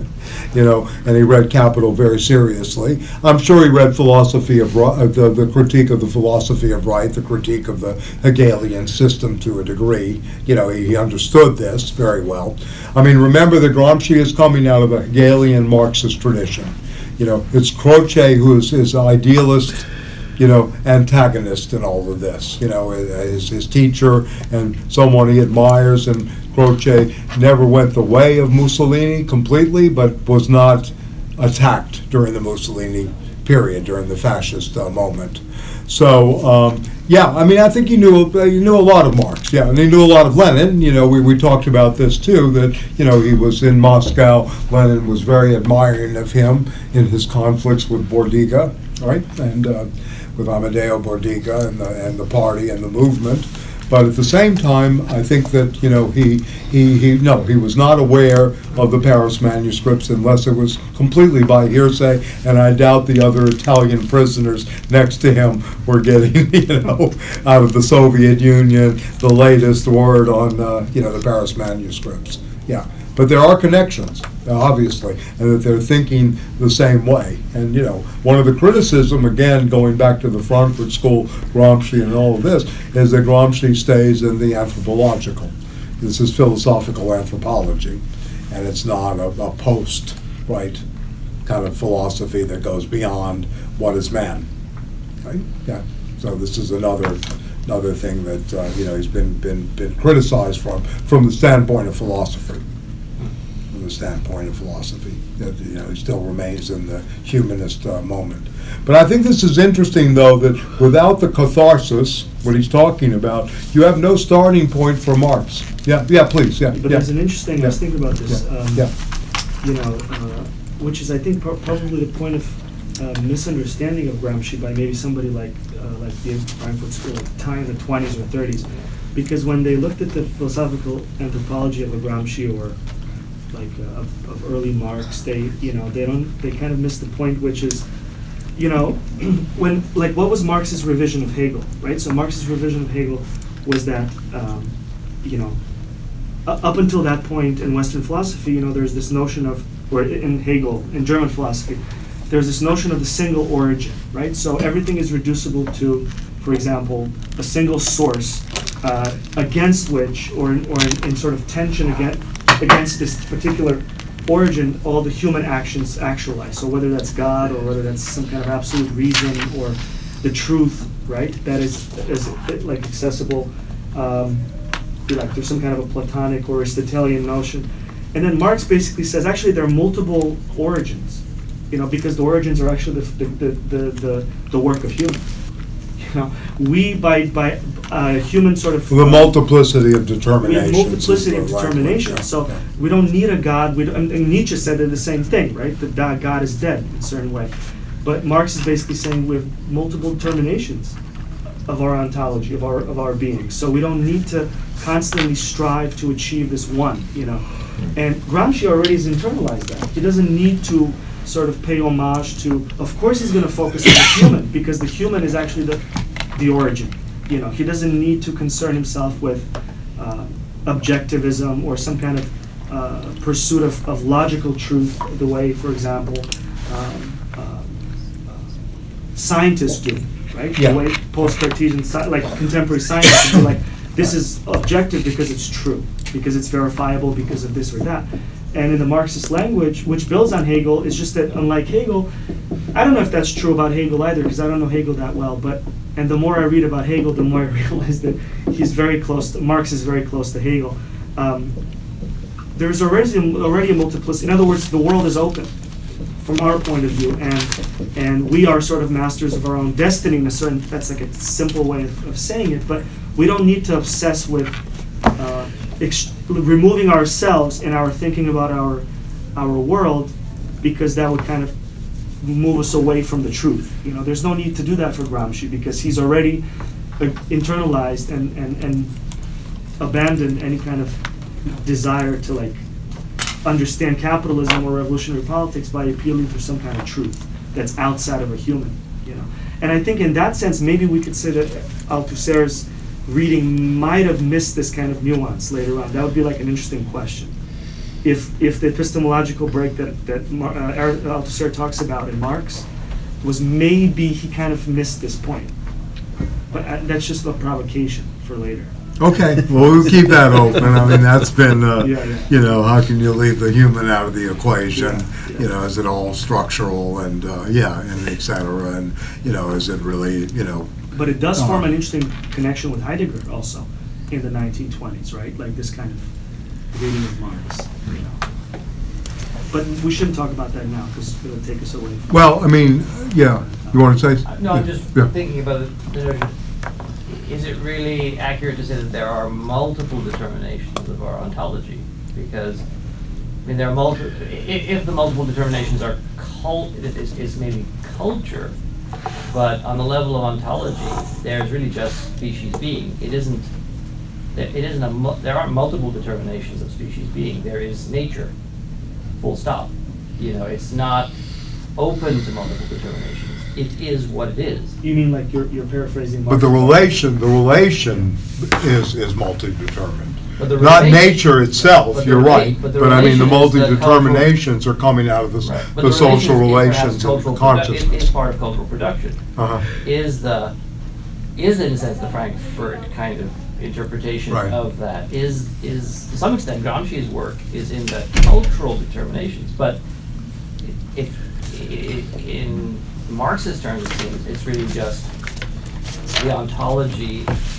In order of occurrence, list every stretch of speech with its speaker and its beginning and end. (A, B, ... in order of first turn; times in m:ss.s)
0:00.5-1:30.8 A
1:31.4-1:34.4 A
1:35.2-1:42.6 A
1:43.7-1:57.8 A
1:56.7-1:58.9 B
1:58.3-1:58.9 A
1:59.6-2:12.8 B
2:13.5-2:17.8 B
2:18.6-2:25.6 B
2:26.4-2:54.4 B
2:55.1-3:05.2 B
3:06.0-3:09.4 B
3:08.9-3:12.6 A
3:10.4-3:17.5 B
3:18.0-3:21.0 B
3:21.7-3:35.8 B
3:36.3-3:47.7 B
3:49.1-4:02.1 B
3:50.6-3:50.8 A
4:02.7-4:11.6 B
4:12.6-4:15.5 B
4:16.2-4:24.6 B
4:25.1-4:28.8 B
4:29.4-4:31.5 B
4:32.2-4:36.4 B
4:37.0-4:38.9 B
4:39.8-4:42.6 B
4:43.4-4:57.3 B
4:58.0-5:02.7 B
5:03.2-5:05.5 B
5:06.5-5:08.7 B
5:09.0-5:20.7 A
5:11.8-5:12.3 B
5:14.7-5:15.4 B
5:20.9-5:26.1 B
5:21.4-5:21.6 A
5:26.7-5:28.2 B
5:29.5-5:32.2 B
5:32.1-5:35.1 A
5:34.3-5:36.3 C
5:37.1-5:42.6 C
5:43.4-5:48.5 C
5:49.3-5:53.5 C
5:54.3-5:58.3 C
5:59.2-6:01.1 C
6:01.8-6:04.7 C
6:04.8-6:06.9 B
6:06.3-6:18.1 A
6:10.4-6:11.2 C
6:11.9-6:14.3 C
6:15.4-6:19.2 C
6:19.4-6:19.7 A
6:19.7-6:20.5 C
6:21.4-6:29.8 C
6:24.3-6:24.5 A
6:30.6-6:35.1 C
6:36.2-6:37.3 C